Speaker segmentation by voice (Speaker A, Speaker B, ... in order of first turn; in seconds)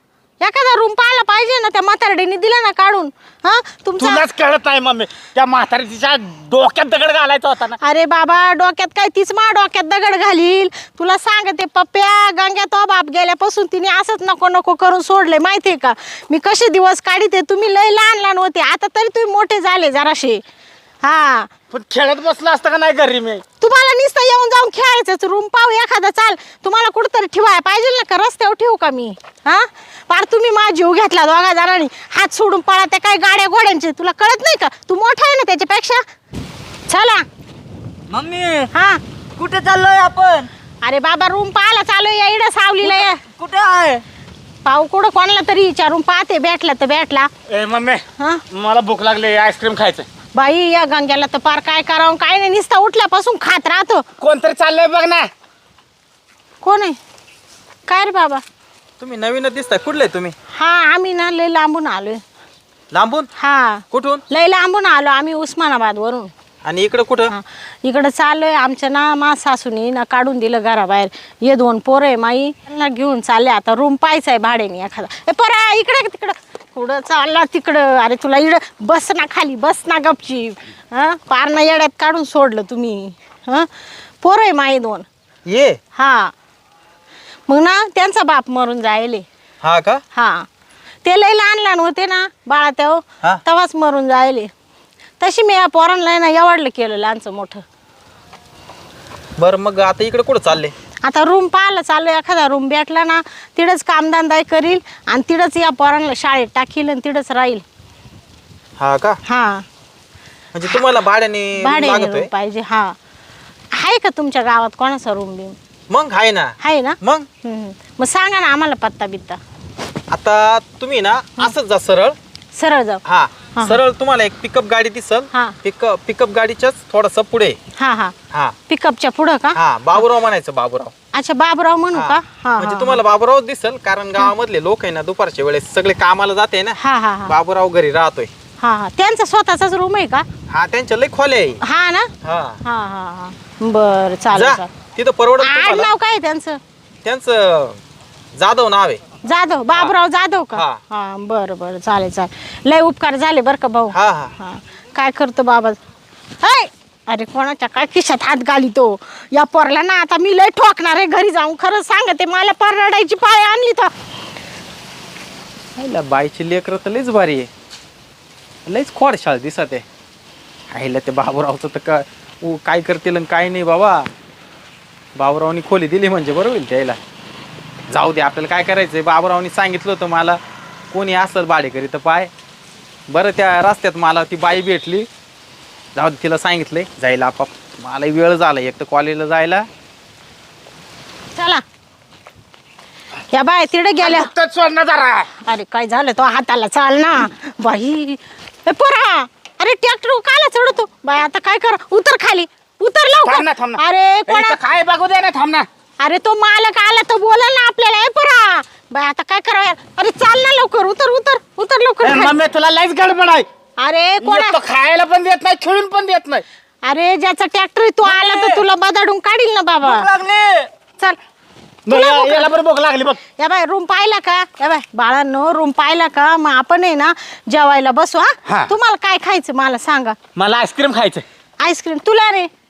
Speaker A: 0.4-4.2, 7.8-20.4, 21.0-21.5, 23.6-36.0, 36.9-37.2, 38.7-39.0, 40.8-43.2, 44.6-47.3, 50.3-54.0, 56.6-57.0, 57.9-58.4, 60.5-62.2, 63.4-66.3, 67.3-85.1, 85.9-86.3, 87.5-89.2, 90.1-90.5, 91.0-94.5, 95.2-97.6, 101.0-107.6, 109.2-109.6, 111.6-112.9, 113.7-115.5, 116.6-119.4, 122.5-123.0, 123.5-123.8, 127.8-128.1, 128.7-129.6, 131.1-133.0, 136.8-137.3, 138.6-140.2, 141.6-142.1, 142.6-144.7, 145.4-146.6, 149.2-155.8, 156.4-163.9, 191.3-191.6, 193.3-194.3, 195.4-204.6, 206.0-212.4, 213.8-214.6, 216.8-220.1, 221.9-222.5, 223.4-230.2, 231.6-232.5
Speaker B: 4.0-7.8, 21.7-23.4, 38.1-38.7, 39.4-40.5, 42.8-44.0, 47.5-50.1, 54.2-55.3, 194.0-195.3, 203.2-205.7, 212.0-213.5, 214.2-216.4, 218.0-218.6, 219.8-220.7, 221.9-223.2, 230.3-231.2
Speaker C: 59.0-60.3, 62.9-63.3, 63.9-64.2, 66.6-67.3, 85.5-85.8, 89.6-90.0, 99.4-100.7, 108.8-109.2, 110.5-112.3, 115.9-117.2, 120.1-122.2, 123.0-127.6, 129.5-130.9, 131.9-138.3, 140.5-141.6, 142.2-142.6, 144.3-145.9, 147.0-147.8, 148.3-149.0, 153.9-154.3, 165.8-167.5, 168.7-169.8, 170.7-174.1, 175.2-177.0, 177.9-180.4, 180.9-182.3, 183.1-185.1, 185.9-189.7